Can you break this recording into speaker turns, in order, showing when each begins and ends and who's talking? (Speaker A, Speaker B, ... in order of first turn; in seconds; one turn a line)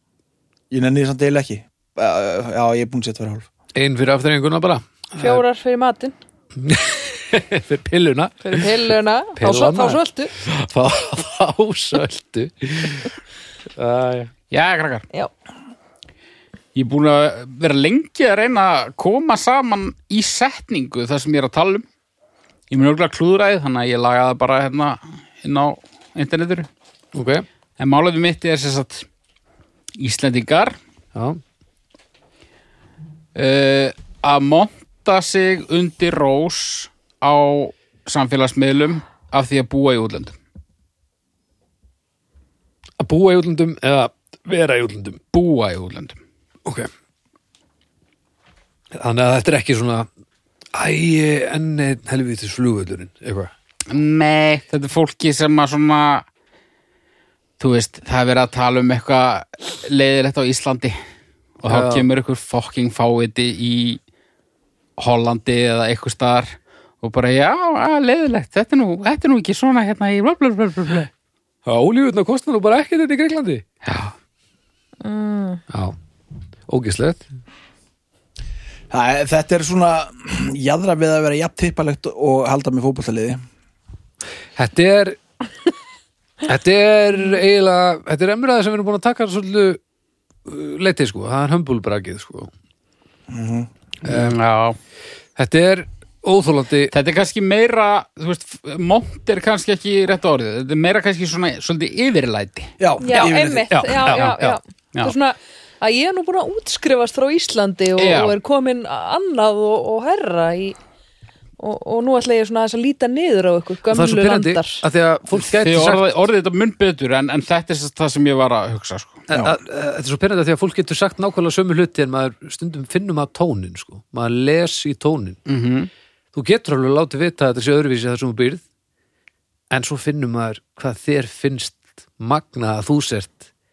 Speaker A: 0.7-3.5
Speaker B: 3.7-5.4
Speaker C: 5.2-6.1
Speaker B: 6.6-8.7
Speaker C: 8.4-10.3
Speaker B: 9.4-13.1
Speaker B: 13.8-14.3
Speaker D: 14.5-15.1
Speaker D: 16.7-21.8
Speaker D: 22.7-26.7
Speaker B: 27.1-27.4
Speaker D: 27.8-29.1
Speaker D: 30.0-30.8
Speaker B: 31.1-31.4
Speaker D: 33.3-40.4
Speaker B: 43.0-45.2
Speaker D: 45.3-46.2
Speaker B: 46.6-46.9
Speaker B: 48.9-50.1
Speaker B: 50.7-53.5
Speaker D: 53.9-56.2
Speaker D: 57.6-61.0
Speaker D: 61.6-64.0
Speaker B: 61.6-62.0
Speaker D: 65.0-71.1
Speaker B: 71.7-73.6
Speaker D: 73.8-74.1
Speaker C: 75.0-75.6
Speaker B: 75.7-76.0
Speaker B: 76.7-77.3
Speaker A: 78.9-83.4
Speaker B: 84.5-85.2
Speaker B: 86.4-89.8
Speaker B: 90.5-92.5
Speaker A: 93.3-93.7
Speaker D: 94.0-94.8
Speaker B: 94.0-94.4
Speaker B: 95.3-96.9
Speaker D: 96.9-102.7
Speaker A: 102.8-103.7
Speaker C: 103.0-110.8
Speaker B: 103.1-104.6
Speaker D: 108.0-108.4
Speaker C: 111.6-114.8
Speaker B: 113.9-116.0
Speaker D: 115.3-119.2
Speaker B: 119.3-125.4
Speaker A: 119.3-119.6
Speaker D: 125.5-125.9
Speaker B: 126.3-128.6
Speaker B: 129.7-133.4